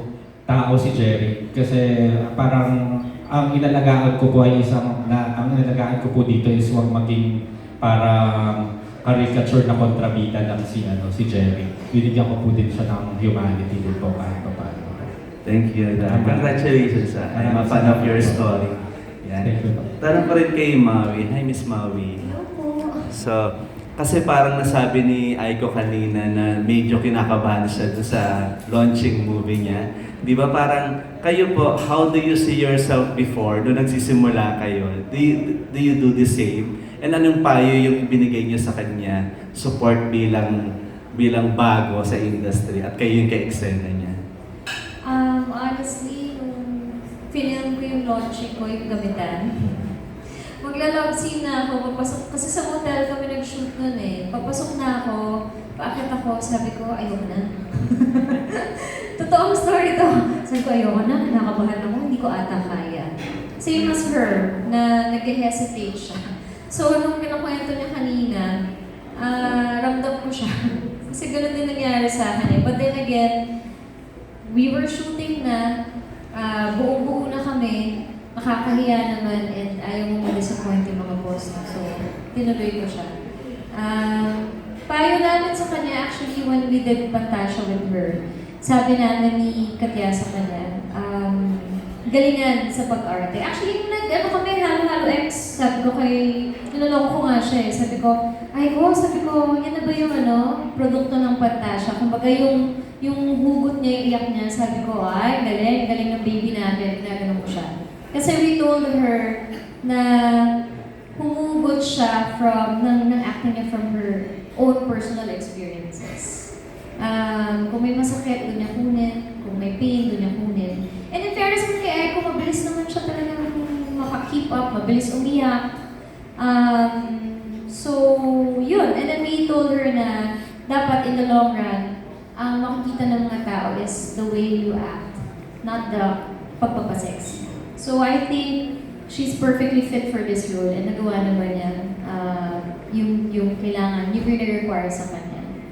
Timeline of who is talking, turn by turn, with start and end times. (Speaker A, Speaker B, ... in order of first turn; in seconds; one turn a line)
Speaker A: 0.5-2.8
Speaker A: 3.3-15.1
Speaker B: 15.4-19.5
Speaker A: 16.0-16.7
Speaker A: 17.3-18.5
Speaker A: 19.4-19.9
Speaker B: 20.0-22.3
Speaker C: 22.2-23.1
Speaker B: 23.1-40.5
Speaker B: 41.1-44.1
Speaker C: 45.0-49.9
Speaker C: 50.6-55.2
Speaker C: 55.8-66.2
Speaker C: 66.7-68.5
Speaker C: 69.2-73.3
Speaker C: 74.5-75.7
Speaker C: 76.3-83.1
Speaker C: 83.8-110.5
Speaker C: 111.1-116.5
Speaker C: 117.0-125.6
Speaker C: 126.4-145.5